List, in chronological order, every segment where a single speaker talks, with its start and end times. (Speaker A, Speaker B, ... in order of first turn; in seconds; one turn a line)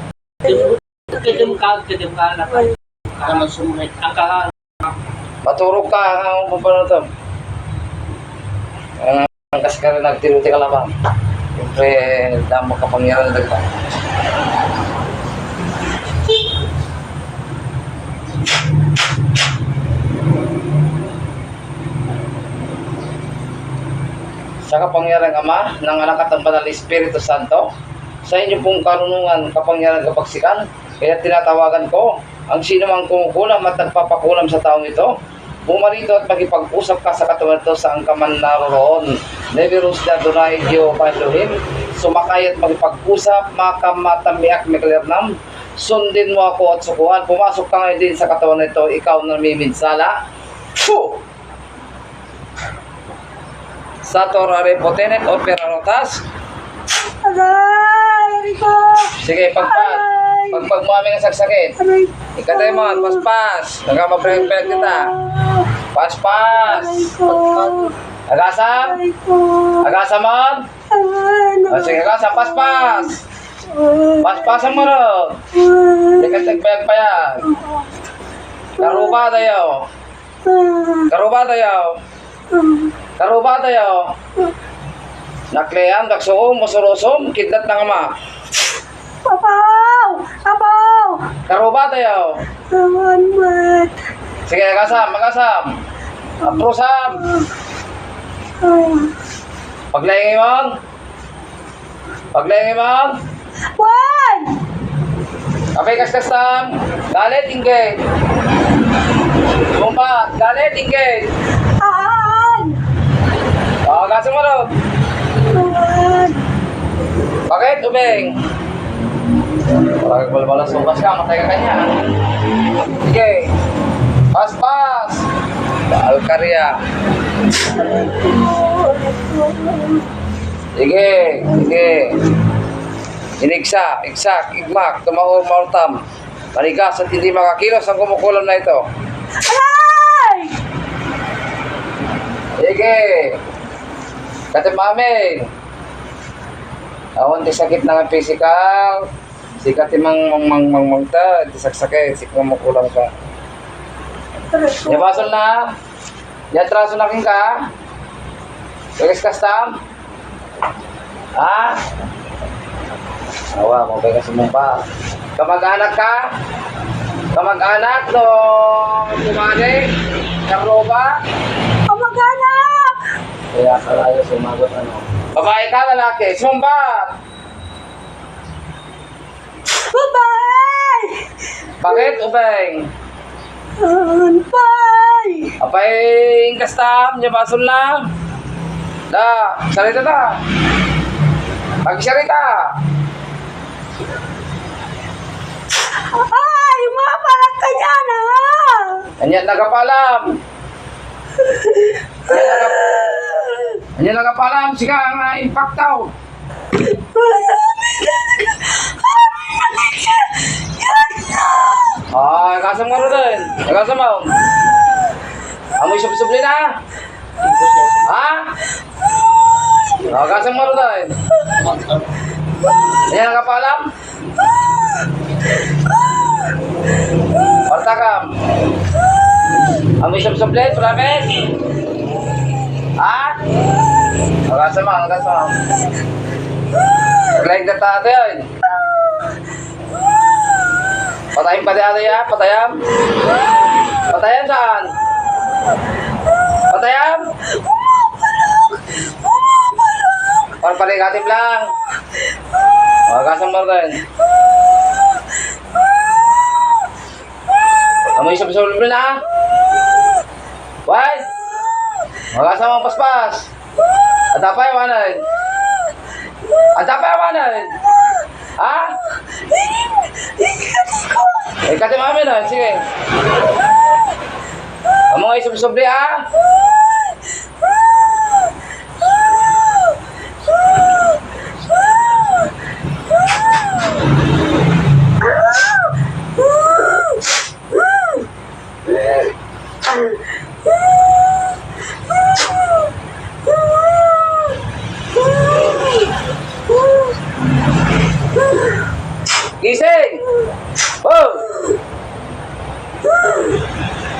Speaker A: 0.6-2.6
Speaker A: 3.2-4.5
Speaker B: 5.5-7.1
Speaker B: 9.0-10.9
Speaker B: 11.6-13.7
Speaker B: 24.7-27.7
Speaker B: 28.2-50.1
Speaker B: 50.8-51.2
Speaker B: 54.0-56.2
Speaker C: 57.0-60.7
Speaker B: 59.1-61.8
Speaker C: 61.8-63.2
Speaker B: 62.4-65.2
Speaker C: 64.3-65.8
Speaker B: 65.9-67.2
Speaker C: 66.7-67.9
Speaker B: 68.3-69.0
Speaker C: 68.8-69.9
Speaker B: 69.8-70.7
Speaker C: 70.9-73.1
Speaker B: 71.7-73.2
Speaker C: 73.6-74.6
Speaker B: 74.2-75.4
Speaker C: 75.5-76.6
Speaker B: 76.2-77.5
Speaker C: 77.5-77.8
Speaker B: 78.8-79.8
Speaker C: 78.8-79.3
Speaker C: 80.4-81.1
Speaker B: 81.1-82.0
Speaker C: 82.5-82.9
Speaker B: 83.2-84.1
Speaker B: 85.5-88.1
Speaker C: 89.2-91.4
Speaker B: 91.5-92.4
Speaker C: 92.7-94.1
Speaker B: 94.5-95.8
Speaker B: 96.4-97.2
Speaker C: 98.6-99.2
Speaker B: 99.9-100.7
Speaker B: 102.3-103.2
Speaker C: 103.7-104.6
Speaker B: 105.8-108.0
Speaker B: 109.7-111.3
Speaker C: 111.7-112.8
Speaker B: 113.8-114.7
Speaker C: 115.4-116.5
Speaker B: 117.5-118.4
Speaker B: 120.0-122.0
Speaker B: 122.9-123.5
Speaker B: 124.3-125.3
Speaker B: 125.9-126.8
Speaker C: 127.7-130.1
Speaker B: 130.8-132.2
Speaker B: 133.4-136.0
Speaker B: 136.6-138.8
Speaker C: 139.4-140.6
Speaker B: 142.6-143.4
Speaker B: 144.5-145.5
Speaker B: 147.2-149.1
Speaker B: 149.6-153.1
Speaker C: 154.5-155.3
Speaker B: 154.9-155.7
Speaker B: 156.5-157.6
Speaker B: 159.0-159.8
Speaker B: 161.4-161.8
Speaker B: 163.6-164.8
Speaker B: 165.4-166.3
Speaker B: 167.3-171.2
Speaker C: 171.9-173.1
Speaker B: 173.5-177.2
Speaker C: 179.7-181.3
Speaker B: 181.8-182.9
Speaker C: 183.8-185.6
Speaker B: 185.6-188.1
Speaker B: 189.1-190.4
Speaker B: 191.8-192.8
Speaker C: 195.8-199.1
Speaker B: 199.2-200.4
Speaker C: 201.4-203.8
Speaker B: 202.3-202.9
Speaker B: 203.9-206.1
Speaker C: 206.7-212.0
Speaker B: 212.1-214.3
Speaker B: 215.8-216.7
Speaker B: 218.0-218.5
Speaker B: 220.0-221.2
Speaker B: 223.0-223.9
Speaker B: 227.7-228.3
Speaker B: 230.0-231.4
Speaker B: 233.0-233.4
Speaker B: 234.5-235.6
Speaker B: 237.3-238.5
Speaker B: 241.3-242.8
Speaker B: 244.1-244.9
Speaker B: 246.7-247.3
Speaker B: 250.6-251.7
Speaker B: 253.1-254.0
Speaker B: 258.2-259.2
Speaker B: 260.9-261.3
Speaker B: 262.3-263.5
Speaker B: 264.3-265.2
Speaker B: 266.8-267.7
Speaker B: 268.6-269.0
Speaker B: 271.6-272.9
Speaker B: 275.1-276.3
Speaker B: 299.6-300.3
Speaker B: 301.0-301.5